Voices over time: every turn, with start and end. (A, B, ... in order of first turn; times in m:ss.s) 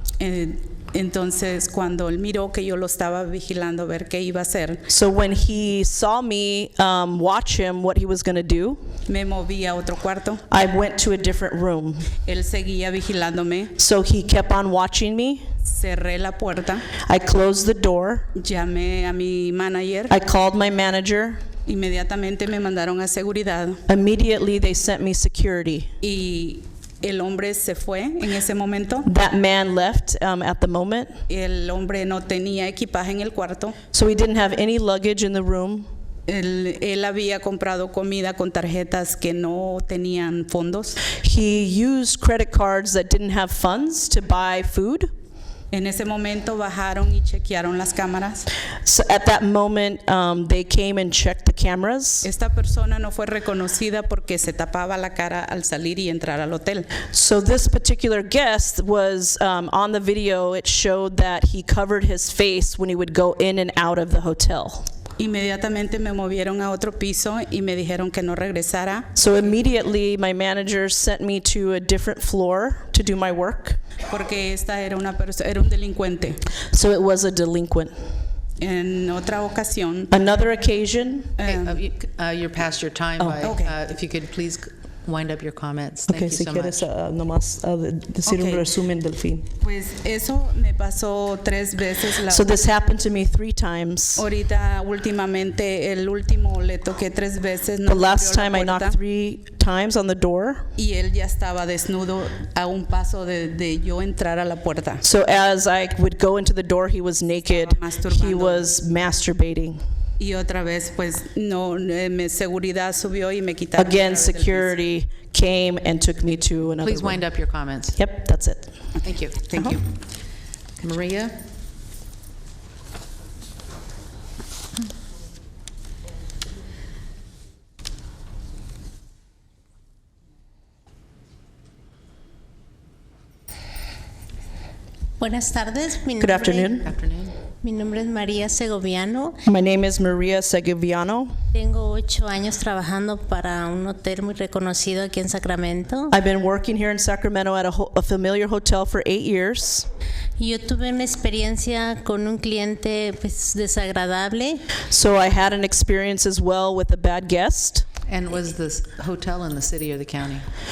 0:00.2-0:04.8 A
0:04.9-0:08.8 B
0:09.1-0:10.4 A
0:10.5-0:12.1 B
0:12.2-0:13.7 A
0:13.8-0:15.4 B
0:15.6-0:16.9 A
0:17.0-0:18.3 B
0:18.4-0:20.1 A
0:20.1-0:21.4 B
0:21.6-0:23.8 A
0:23.9-0:25.9 B
0:26.0-0:29.1 A
0:29.0-0:31.1 B
0:31.3-0:33.8 A
0:33.9-0:35.9 B
0:36.3-0:41.0 A
0:41.2-0:45.1 B
0:45.7-0:48.5 A
0:48.8-0:52.3 B
0:52.2-0:56.9 A
0:57.1-1:04.9 B
1:05.2-1:09.0 A
1:09.1-1:13.8 B
1:14.1-1:16.4 A
1:16.7-1:17.9 B
1:18.6-1:20.1 A
1:20.1-1:21.3 B
1:21.4-1:21.8 A
1:21.4-1:26.8 C
1:23.4-1:23.7 A
1:26.1-1:29.4 B
1:28.2-1:28.6 A
1:29.6-1:32.5 A
1:32.3-1:34.2 B
1:34.2-1:39.0 A
1:37.8-1:40.6 B
1:40.8-1:45.0 A
1:45.0-1:49.8 B
1:47.4-1:48.7 A
1:50.2-1:54.7 A
1:53.8-1:57.2 B
1:56.8-1:58.0 C
1:57.9-1:58.8 B
1:59.0-1:59.4 C
1:59.5-1:59.8 A
1:59.5-1:59.8 B
2:00.8-2:01.3 C
2:15.2-2:16.7 D
2:16.2-2:16.9 B
2:16.8-2:17.4 C
2:17.6-2:19.4 D
2:19.4-2:21.3 B
2:21.5-2:26.1 D
2:26.1-2:29.9 B
2:30.4-2:34.6 D
2:34.9-2:37.8 B
2:38.0-2:40.4 C